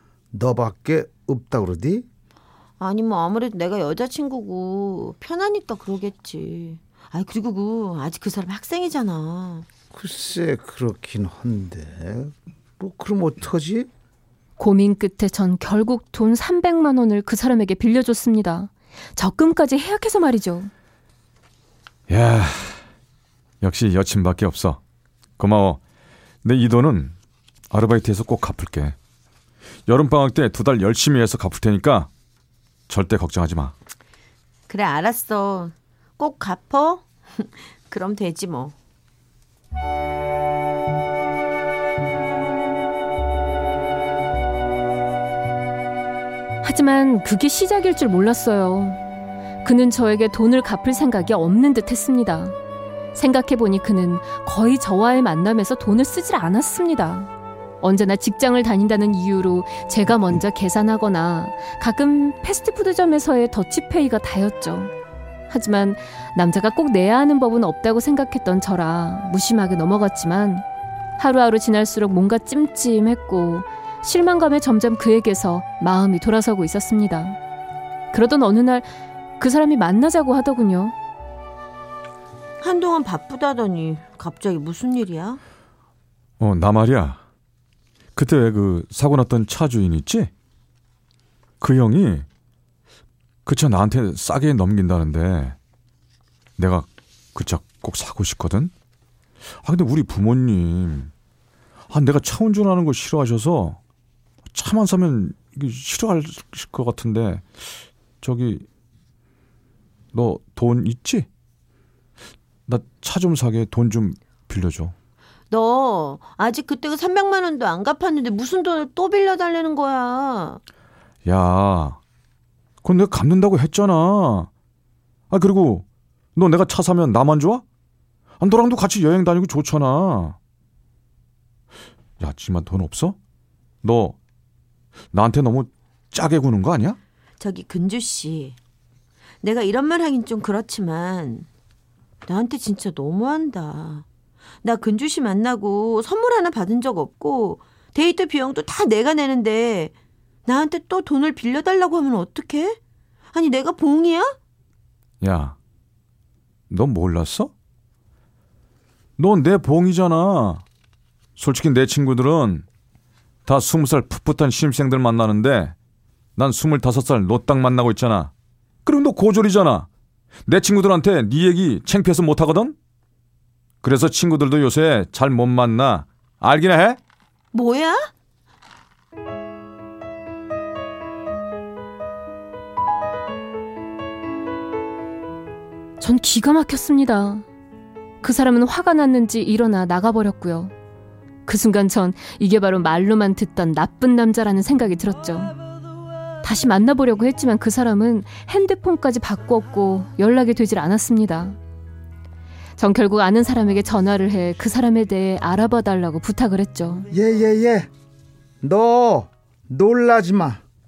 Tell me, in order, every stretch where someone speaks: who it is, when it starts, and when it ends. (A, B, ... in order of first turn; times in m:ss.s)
0:00.3-0:02.1 A
0:02.8-0:09.7 B
0:09.9-0:13.9 A
0:14.6-0:20.7 C
0:22.1-0:22.8 D
0:23.6-0:24.8 D
0:25.4-0:25.8 D
0:26.4-0:27.1 D
0:27.7-0:29.0 D
0:29.9-0:32.1 D
0:32.9-0:33.7 D
0:34.7-0:38.8 B
0:46.6-0:49.0 C
0:49.6-0:52.6 C
0:53.1-0:57.3 C
0:57.8-1:04.9 C
1:05.5-1:10.6 C
1:11.2-1:17.4 C
1:18.1-1:18.9 C
1:19.4-1:21.0 C
1:22.6-1:25.4 B
1:26.4-1:27.2 D
1:28.2-1:30.3 D
1:31.6-1:32.2 D
1:33.5-1:35.6 D
1:36.6-1:38.7 D
1:39.6-1:41.1 D
1:41.9-1:43.8 D
1:44.5-1:47.5 D
1:48.2-1:48.6 D
1:50.1-1:51.3 D
1:52.7-1:54.9 D
1:55.5-2:00.6 B
2:01.2-2:02.0 D
2:02.8-2:04.5 D
2:05.3-2:05.8 D
2:06.4-2:07.6 D
2:08.4-2:10.4 D
2:12.2-2:13.2 D
2:13.8-2:14.2 D
2:15.1-2:17.0 D
2:17.4-2:18.6 B
2:19.4-2:21.5 B
2:22.3-2:24.0 B
2:24.6-2:29.9 B
2:30.5-2:32.8 B
2:33.3-2:34.4 B
2:35.2-2:35.6 D
2:36.7-2:37.5 D
2:39.2-2:40.6 D
2:41.4-2:42.6 D
2:43.5-2:45.8 D
2:46.4-2:48.3 D
2:48.8-2:49.9 D
2:50.5-2:52.8 D
2:53.8-2:57.0 D
2:57.5-2:58.1 B
3:06.0-3:07.5 C
3:08.2-3:10.7 C
3:11.4-3:15.6 C
3:16.4-3:21.6 C
3:22.8-3:27.1 C
3:27.1-3:27.9 A
3:28.6-3:30.6 A